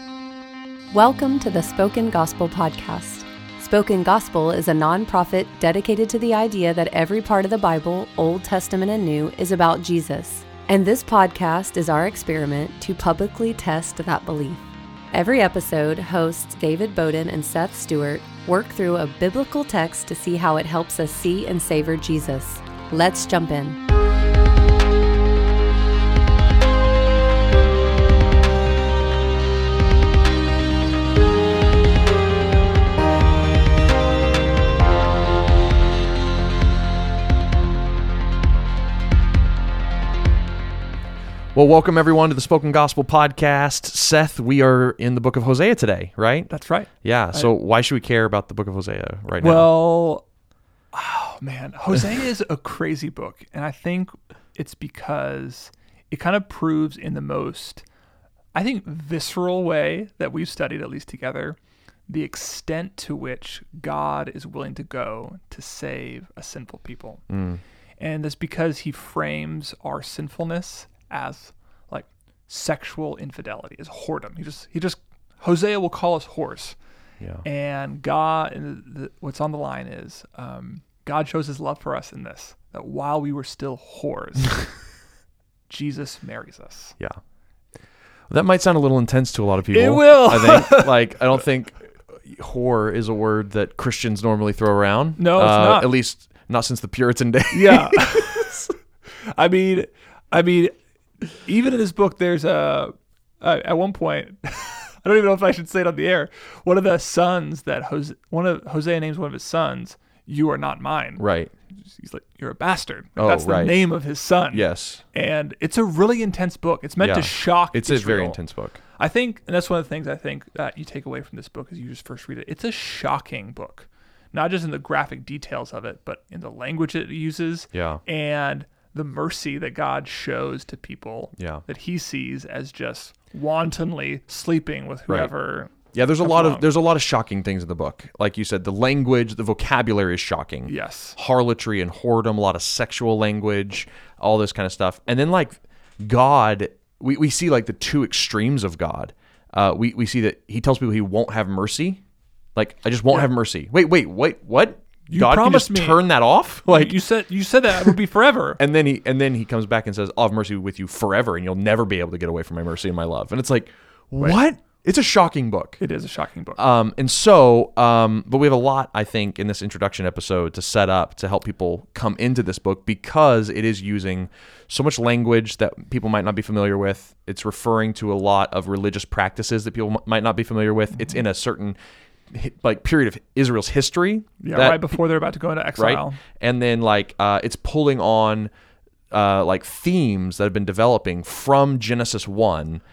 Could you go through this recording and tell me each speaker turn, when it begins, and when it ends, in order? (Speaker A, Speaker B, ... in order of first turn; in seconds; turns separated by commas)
Speaker A: 0.9-14.6, Speaker A: 15.1-23.8, Speaker B: 41.5-46.5, Speaker C: 46.5-47.5, Speaker B: 47.0-49.7, Speaker C: 49.4-50.2, Speaker C: 50.9-57.8, Speaker C: 58.5-61.6, Speaker C: 62.1-67.2, Speaker B: 67.3-67.6, Speaker C: 68.0-76.8, Speaker C: 77.5-84.7, Speaker C: 85.7-87.0, Speaker B: 88.3-98.7, Speaker C: 89.7-91.0, Speaker C: 95.2-95.9, Speaker C: 97.5-98.6, Speaker C: 99.2-100.7, Speaker C: 101.3-111.2, Speaker B: 111.2-111.5, Speaker C: 111.9-118.4, Speaker B: 113.2-113.8, Speaker B: 114.5-115.0, Speaker B: 117.0-118.8, Speaker C: 119.0-136.7, Speaker B: 127.7-128.0, Speaker B: 131.4-131.6, Speaker B: 135.9-152.0, Speaker C: 140.7-141.2, Speaker B: 152.6-157.0, Speaker C: 155.1-156.0, Speaker C: 156.7-158.6, Speaker B: 158.6-165.8, Speaker C: 165.8-166.6, Speaker B: 166.6-181.8, Speaker B: 182.3-185.0, Speaker C: 184.4-186.2, Speaker B: 185.8-188.5, Speaker B: 189.1-192.8